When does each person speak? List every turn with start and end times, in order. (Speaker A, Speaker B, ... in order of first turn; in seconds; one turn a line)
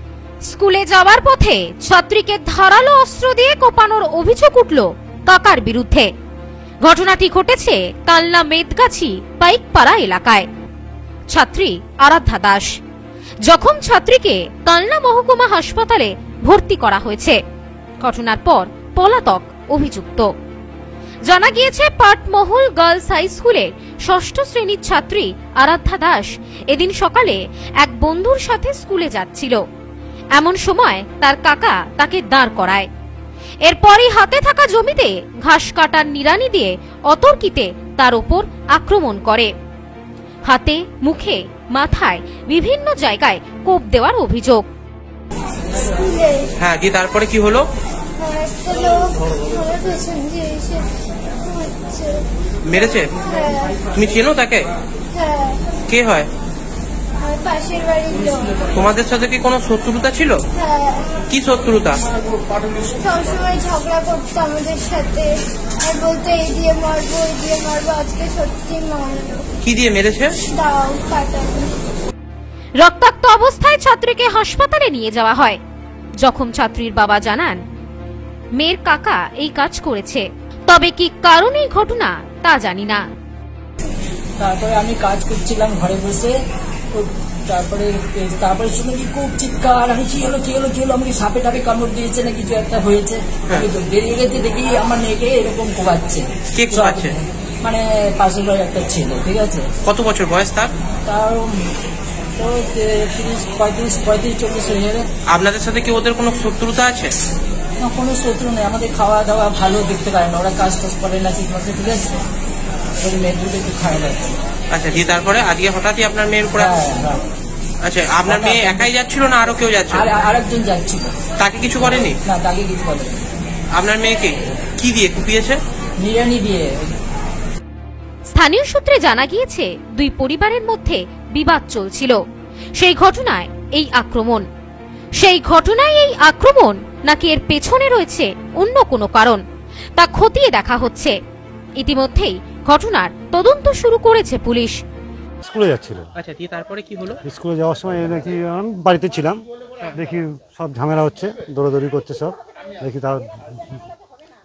Speaker A: 0.5-6.1
Speaker A: 6.8-10.4
Speaker A: 11.3-12.7
Speaker A: 13.5-17.4
Speaker A: 18.0-20.3
Speaker A: 21.3-29.6
Speaker A: 30.4-32.9
Speaker A: 33.7-39.5
Speaker A: 40.5-44.7
Speaker B: 45.9-46.5
Speaker C: 46.6-47.7
Speaker B: 48.2-50.9
Speaker B: 51.4-52.2
Speaker C: 52.7-53.1
Speaker B: 52.9-53.8
Speaker C: 53.9-54.7
Speaker B: 55.1-55.6
Speaker C: 55.9-56.3
Speaker B: 57.2-58.6
Speaker C: 58.7-60.4
Speaker B: 60.5-61.2
Speaker C: 61.3-62.0
Speaker B: 63.0-69.5
Speaker C: 69.6-70.3
Speaker B: 70.5-71.8
Speaker A: 72.8-75.6
Speaker A: 76.2-77.6
Speaker A: 78.6-83.0
Speaker D: 84.4-86.3
Speaker D: 86.9-99.7
Speaker C: 96.5-97.2
Speaker C: 99.9-100.7
Speaker D: 101.1-101.6
Speaker D: 102.4-105.1
Speaker C: 105.3-107.1
Speaker D: 107.8-112.2
Speaker D: 113.0-114.4
Speaker C: 114.7-116.8
Speaker D: 116.6-117.2
Speaker C: 117.8-120.1
Speaker D: 118.3-118.9
Speaker D: 119.9-121.1
Speaker C: 121.4-122.2
Speaker D: 121.8-123.3
Speaker C: 123.8-125.6
Speaker D: 126.0-126.9
Speaker A: 128.3-132.2
Speaker A: 132.8-134.4
Speaker A: 135.2-139.4
Speaker A: 140.0-141.2
Speaker A: 141.8-144.8
Speaker E: 145.4-146.1
Speaker C: 146.2-147.2
Speaker E: 147.2-149.4
Speaker E: 149.9-153.8